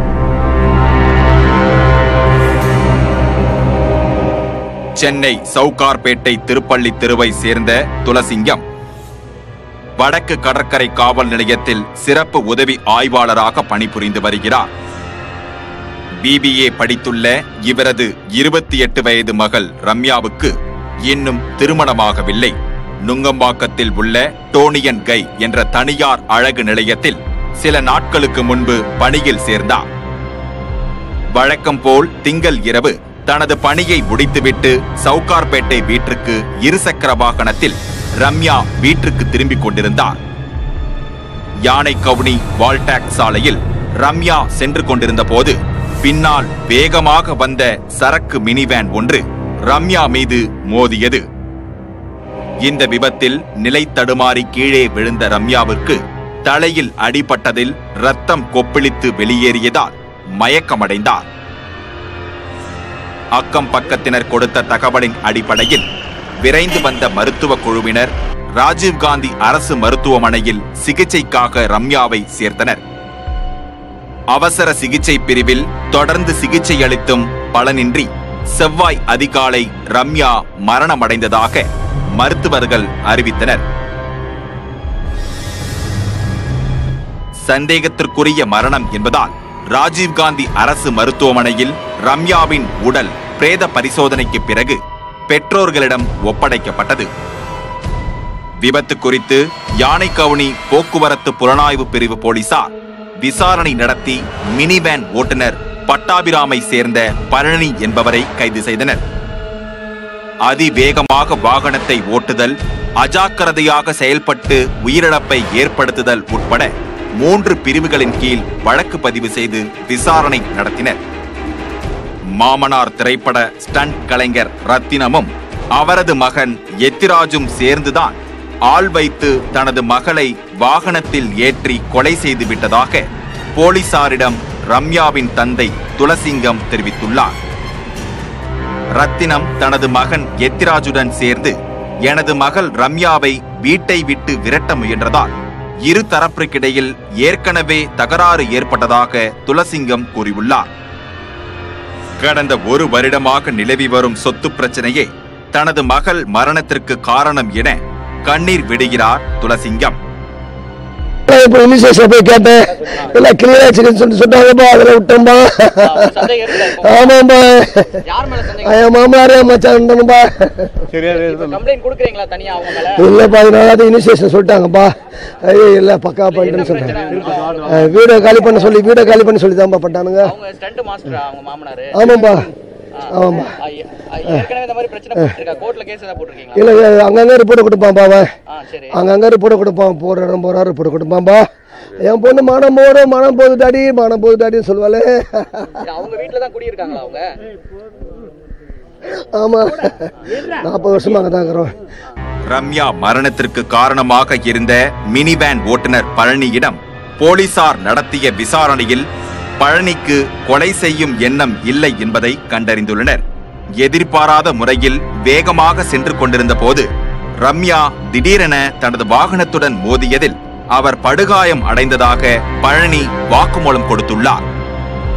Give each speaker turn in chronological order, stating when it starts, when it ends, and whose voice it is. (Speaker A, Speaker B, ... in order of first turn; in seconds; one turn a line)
Speaker A: 5.0-8.6
Speaker A: 10.0-14.7
Speaker A: 16.2-20.5
Speaker A: 21.1-22.5
Speaker A: 23.1-29.9
Speaker A: 31.4-40.2
Speaker A: 41.7-51.2
Speaker A: 52.6-61.2
Speaker A: 63.4-65.8
Speaker A: 66.4-72.8
Speaker A: 74.3-83.6
Speaker A: 87.5-97.1
Speaker A: 98.6-109.0
Speaker A: 110.5-121.0
Speaker A: 122.4-133.0
Speaker A: 133.6-137.4
Speaker A: 139.0-141.6
Speaker A: 142.1-145.3
Speaker A: 145.9-150.7
Speaker A: 152.2-160.0
Speaker B: 161.3-167.9
Speaker C: 165.8-167.2
Speaker C: 168.1-168.9
Speaker B: 168.6-170.7
Speaker C: 171.0-173.1
Speaker B: 173.0-174.9
Speaker B: 175.5-177.1
Speaker C: 176.3-178.7
Speaker B: 177.7-180.3
Speaker C: 180.2-182.3
Speaker B: 181.9-182.5
Speaker C: 183.0-186.9
Speaker B: 183.1-183.6
Speaker B: 186.5-188.3
Speaker C: 188.5-189.0
Speaker B: 188.9-191.5
Speaker B: 192.0-195.7
Speaker C: 195.9-197.3
Speaker B: 199.4-199.9
Speaker B: 200.6-201.7
Speaker A: 202.5-209.0
Speaker A: 209.6-213.2
Speaker A: 213.8-216.9
Speaker A: 217.4-224.4